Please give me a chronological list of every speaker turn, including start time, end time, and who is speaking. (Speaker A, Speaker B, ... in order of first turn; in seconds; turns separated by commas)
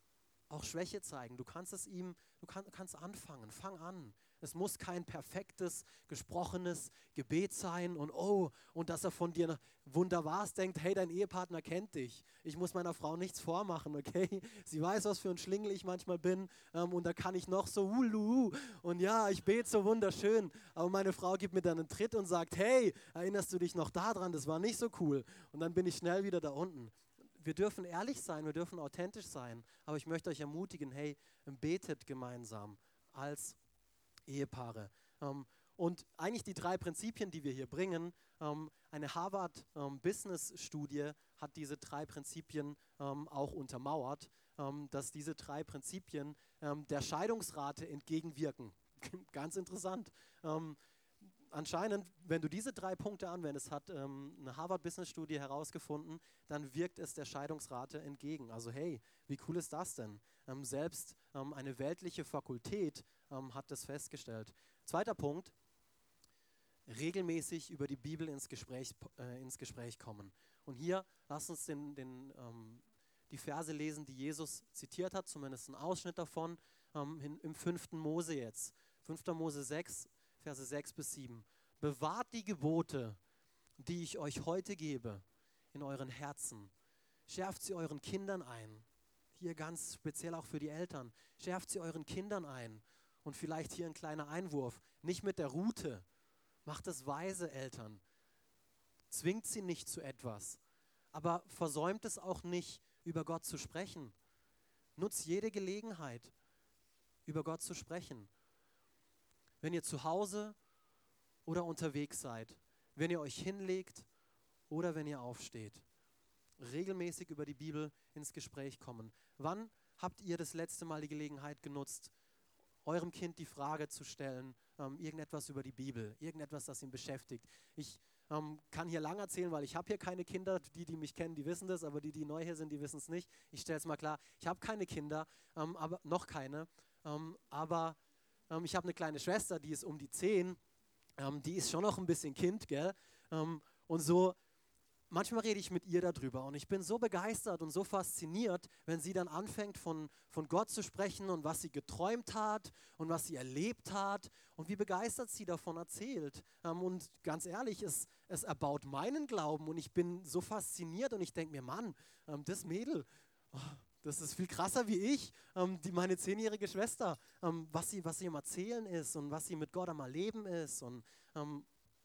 Speaker A: 0.5-33.6, Speaker A: 34.3-50.8, Speaker A: 51.5-65.5, Speaker A: 66.9-83.2, Speaker A: 83.8-86.7, Speaker A: 87.3-96.0, Speaker A: 96.7-98.0, Speaker A: 99.1-100.6, Speaker A: 101.1-104.2, Speaker A: 105.0-106.3, Speaker A: 107.3-108.3, Speaker A: 109.6-110.6, Speaker A: 111.5-114.1, Speaker A: 114.7-115.8, Speaker A: 116.6-122.1, Speaker A: 122.8-138.0, Speaker A: 138.5-140.6, Speaker A: 141.2-144.4, Speaker A: 145.1-171.7